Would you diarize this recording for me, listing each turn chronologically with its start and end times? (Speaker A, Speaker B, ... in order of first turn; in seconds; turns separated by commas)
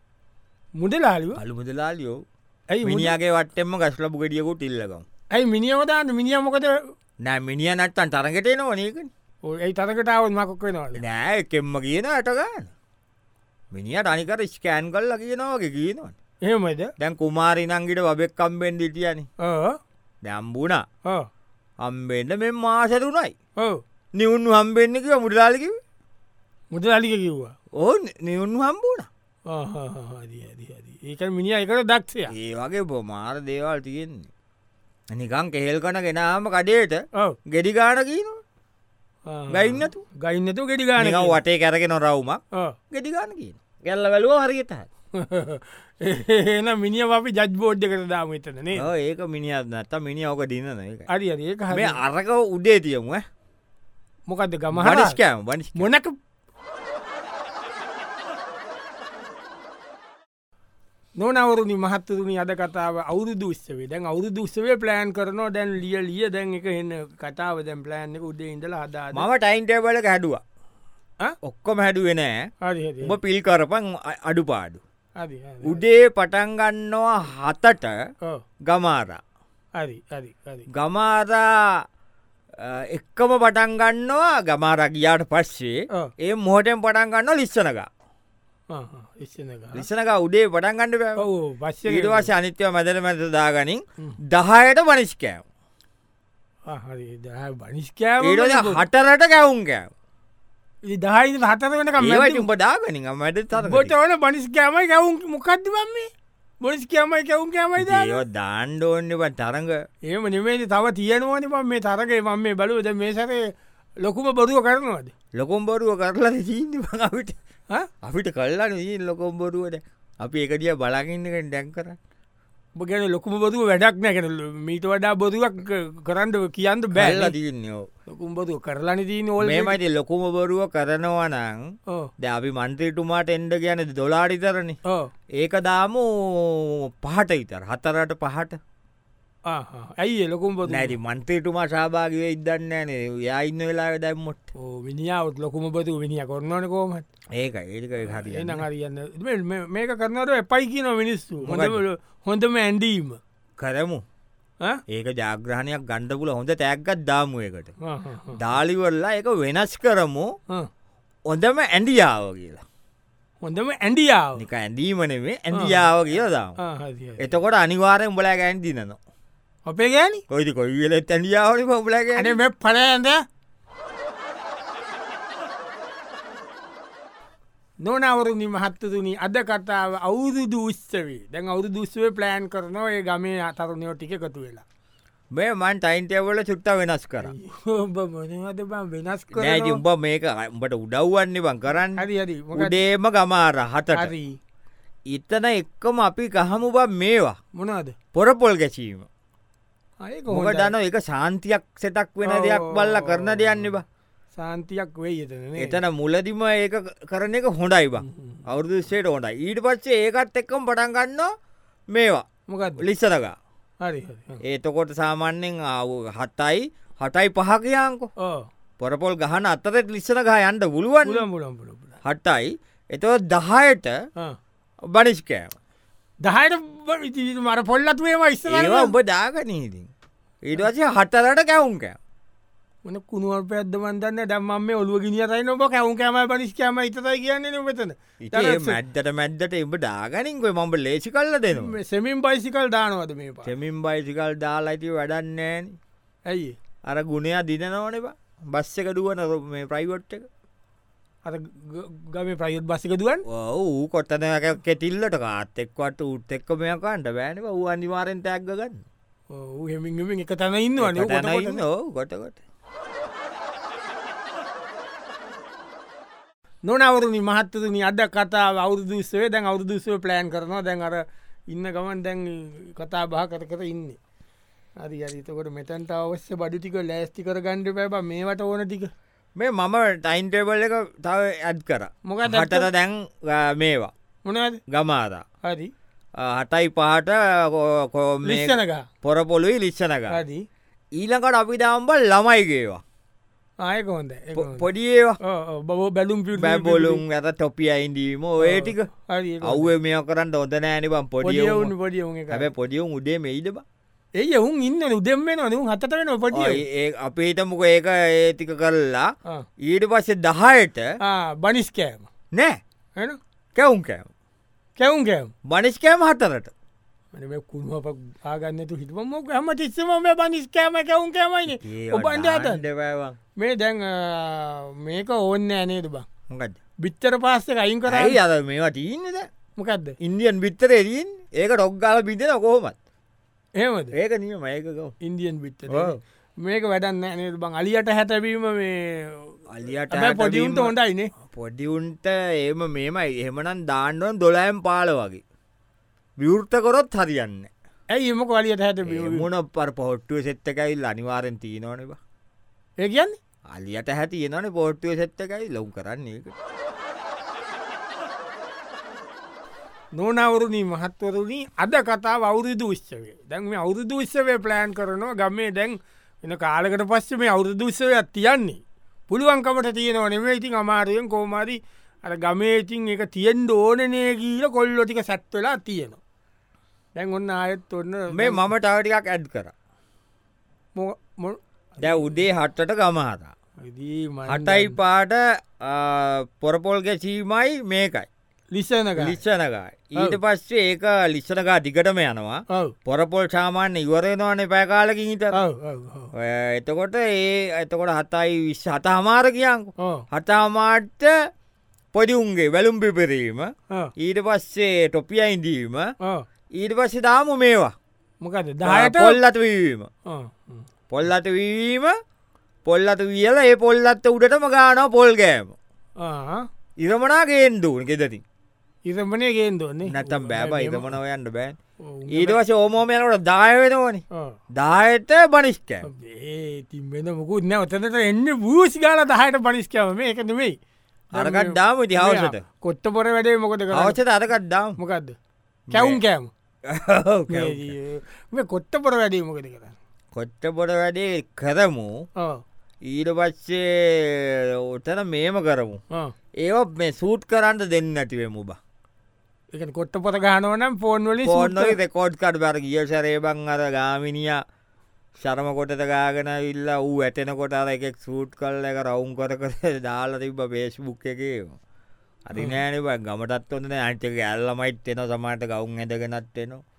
Speaker A: 0.8-1.4, Speaker B: 1.3-2.2, Speaker A: 2.7-3.1, Speaker B: 2.8-5.0, Speaker A: 5.3-6.8, Speaker B: 7.2-9.1, Speaker A: 9.4-11.0, Speaker B: 10.9-12.7, Speaker B: 13.7-16.1, Speaker A: 16.4-16.9, Speaker B: 17.0-19.3, Speaker A: 19.4-19.8, Speaker B: 20.2-20.8, Speaker B: 21.8-23.3, Speaker B: 24.1-25.8, Speaker A: 26.7-27.5, Speaker B: 27.8-29.1, Speaker A: 29.5-32.3, Speaker B: 32.3-34.3, Speaker B: 35.1-38.4, Speaker A: 39.3-41.4, Speaker B: 39.5-40.0, Speaker B: 41.0-44.9, Speaker A: 45.2-48.8, Speaker B: 48.7-51.1, Speaker A: 51.1-52.0, Speaker B: 51.7-53.2, Speaker A: 54.3-55.2, Speaker B: 54.7-55.9, Speaker A: 55.7-56.1, Speaker A: 61.2-69.2, Speaker B: 69.1-70.4, Speaker B: 71.4-72.5, Speaker A: 72.6-73.2, Speaker B: 73.0-74.8, Speaker A: 75.2-75.8, Speaker B: 75.6-78.0, Speaker B: 78.6-79.2, Speaker A: 79.8-80.7, Speaker B: 80.7-81.8, Speaker B: 82.6-87.9, Speaker A: 88.7-89.8, Speaker B: 89.7-91.3, Speaker A: 91.2-92.3, Speaker B: 91.9-95.4, Speaker A: 96.7-98.8, Speaker B: 98.2-99.9, Speaker A: 100.8-102.5, Speaker B: 102.0-103.9, Speaker A: 103.5-106.1, Speaker A: 106.6-108.2, Speaker B: 107.8-109.8, Speaker A: 110.1-113.5, Speaker A: 114.0-115.1, Speaker B: 115.3-117.4, Speaker B: 118.0-122.0, Speaker A: 122.8-127.3, Speaker B: 126.9-127.9, Speaker A: 128.1-129.8, Speaker B: 129.4-131.7, Speaker B: 132.2-134.8, Speaker B: 135.4-138.6, Speaker A: 139.5-140.9, Speaker B: 140.7-144.5, Speaker A: 144.6-147.0, Speaker B: 147.3-148.6, Speaker A: 148.1-153.2, Speaker B: 151.4-151.8, Speaker B: 153.6-154.0, Speaker B: 154.9-157.7, Speaker A: 157.8-158.4, Speaker B: 158.3-160.3, Speaker B: 161.3-162.6, Speaker A: 163.4-164.4, Speaker B: 164.4-166.6, Speaker A: 165.5-165.8, Speaker A: 166.6-167.3, Speaker B: 167.2-169.0, Speaker A: 169.7-170.2, Speaker B: 170.3-172.4, Speaker A: 172.2-173.2, Speaker A: 177.8-184.6, Speaker B: 185.3-187.3, Speaker A: 187.2-189.8, Speaker B: 189.3-192.0, Speaker A: 192.0-192.8, Speaker B: 192.5-194.1, Speaker A: 193.9-194.4, Speaker B: 195.1-197.3, Speaker A: 197.6-197.9, Speaker B: 198.1-199.1, Speaker A: 200.0-200.7, Speaker B: 200.3-203.8, Speaker A: 202.2-203.7, Speaker A: 204.3-205.8, Speaker B: 205.6-211.3, Speaker A: 208.0-208.4, Speaker B: 211.9-212.2, Speaker A: 212.5-212.8, Speaker B: 212.8-213.3, Speaker A: 213.8-214.4, Speaker B: 214.4-218.1, Speaker A: 218.2-218.5, Speaker B: 218.8-221.2, Speaker A: 221.0-222.0, Speaker B: 222.0-224.0, Speaker B: 224.8-225.6, Speaker A: 226.2-228.9, Speaker B: 228.5-229.9, Speaker B: 230.4-232.0, Speaker A: 232.8-238.8, Speaker B: 238.2-241.8, Speaker A: 241.5-243.5, Speaker B: 243.4-245.8, Speaker A: 246.3-246.6, Speaker B: 246.9-250.2, Speaker A: 251.2-253.2, Speaker B: 253.3-258.8, Speaker A: 259.3-261.6, Speaker B: 260.8-262.4, Speaker A: 266.6-274.0, Speaker A: 274.8-278.9, Speaker B: 279.4-283.9, Speaker A: 282.1-282.7, Speaker A: 284.2-284.6, Speaker B: 284.7-285.2, Speaker A: 285.4-285.7, Speaker B: 286.2-290.2, Speaker A: 288.2-288.9, Speaker A: 290.1-290.4, Speaker B: 290.9-292.8, Speaker A: 293.6-294.6, Speaker B: 294.3-295.2, Speaker A: 295.2-297.0, Speaker B: 296.3-298.9, Speaker A: 298.4-299.7, Speaker B: 299.4-301.7, Speaker A: 301.2-302.5, Speaker B: 302.3-303.6, Speaker A: 304.2-306.6, Speaker B: 306.3-309.1, Speaker B: 309.6-310.9, Speaker A: 311.0-312.1, Speaker B: 312.3-312.6, Speaker B: 313.5-314.1, Speaker A: 314.8-315.3, Speaker B: 315.4-316.5, Speaker A: 317.1-322.6, Speaker B: 321.5-323.2, Speaker A: 323.4-326.1, Speaker B: 326.3-326.6, Speaker A: 326.8-328.2, Speaker B: 327.9-329.3, Speaker A: 329.6-330.0, Speaker B: 330.0-332.8, Speaker A: 333.6-333.9, Speaker B: 333.9-334.9, Speaker A: 335.0-339.4, Speaker B: 335.7-336.0, Speaker B: 339.5-340.7, Speaker A: 339.9-341.1, Speaker B: 341.3-345.2, Speaker B: 346.2-347.5, Speaker A: 347.9-349.2, Speaker B: 348.8-352.0, Speaker A: 352.8-353.2, Speaker B: 353.5-356.3, Speaker A: 359.9-376.0, Speaker A: 376.9-378.4, Speaker B: 378.1-379.5, Speaker A: 380.8-382.0, Speaker B: 381.8-383.3, Speaker A: 383.6-384.8, Speaker B: 384.3-388.1, Speaker A: 388.5-389.2, Speaker B: 389.0-395.4, Speaker A: 395.3-396.1, Speaker B: 396.1-401.1, Speaker A: 399.8-400.0, Speaker B: 401.9-405.9, Speaker B: 406.6-407.7, Speaker A: 408.2-409.2, Speaker B: 408.6-409.9, Speaker A: 410.1-410.6, Speaker B: 410.9-411.9, Speaker B: 412.6-415.6, Speaker A: 416.0-416.4, Speaker B: 416.8-418.2, Speaker A: 418.9-420.9, Speaker B: 419.9-421.6, Speaker A: 421.8-422.4, Speaker B: 422.1-425.9, Speaker A: 425.8-430.6, Speaker B: 431.1-432.4, Speaker A: 431.1-434.0, Speaker B: 433.7-434.8, Speaker A: 434.8-435.1, Speaker B: 435.7-436.0, Speaker A: 435.7-436.3, Speaker B: 436.7-437.7, Speaker A: 437.3-439.8, Speaker B: 440.1-441.9, Speaker B: 442.9-445.8, Speaker B: 446.4-448.6, Speaker A: 449.5-451.8, Speaker B: 451.2-454.4, Speaker B: 455.2-461.6, Speaker B: 462.2-466.6